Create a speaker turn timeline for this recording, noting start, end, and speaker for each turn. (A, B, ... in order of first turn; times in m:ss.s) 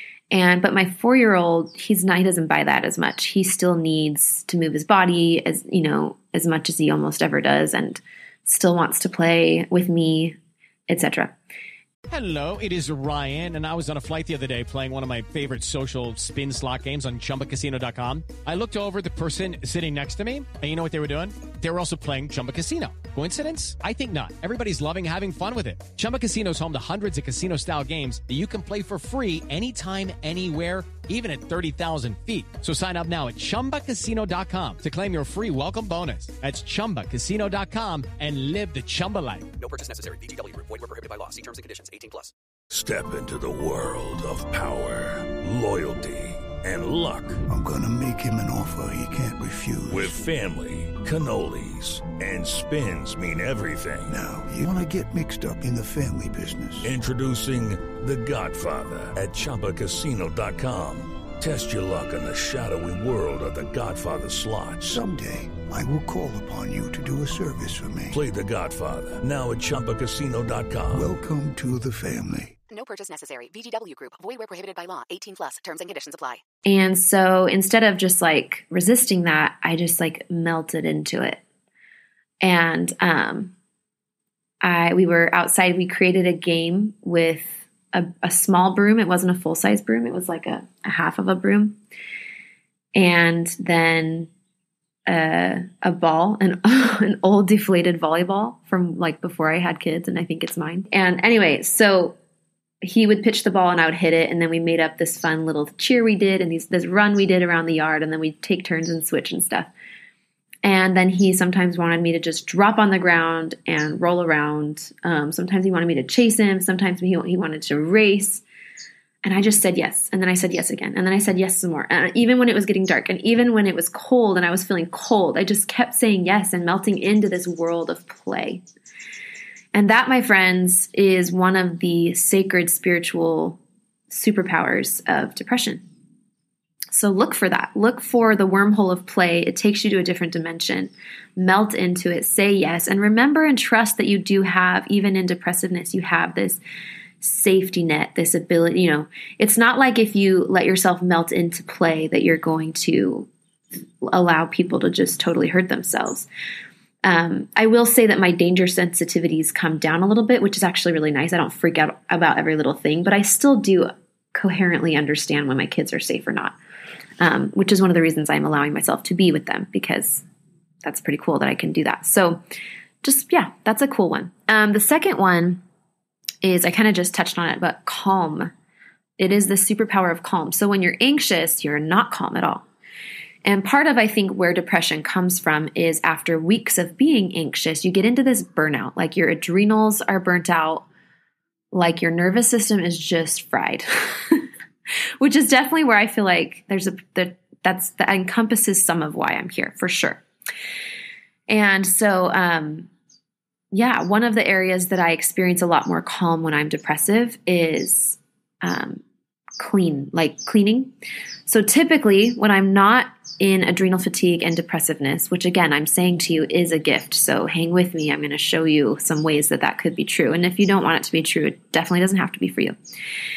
0:00.3-0:10.4 A
0:10.9-0:11.4 A
0:12.1-0:39.5 B
0:39.6-0:42.3 C
0:42.7-0:47.4 D
0:47.5-0:50.2 E
0:49.9-0:54.1 D
0:54.1-0:56.9 E
0:56.8-1:05.0 D
1:04.8-1:08.2 E
1:08.1-1:11.1 D
1:10.9-1:12.6 E
1:12.7-1:16.4 C
1:16.6-1:21.4 A
1:22.4-1:23.5 A
1:24.6-1:31.8 A
1:33.0-1:34.3 A
1:35.1-1:42.2 A
1:42.8-1:49.7 A
1:50.6-1:58.4 A
1:59.2-2:08.6 A
2:09.7-2:13.6 A
2:14.1-2:15.8 A
2:16.9-2:26.6 A
2:27.2-2:33.3 A
2:34.0-2:36.3 A
2:37.0-2:46.6 A
2:47.2-2:50.2 A
2:50.8-2:52.4 A
2:53.0-2:55.6 A
2:56.4-2:58.5 A
2:59.2-3:02.6 A
3:03.4-3:10.9 A
3:11.7-3:14.5 A
3:15.2-3:20.2 A
3:21.5-3:22.9 A
3:23.7-3:29.0 A
3:29.6-3:30.9 A
3:31.5-3:42.8 A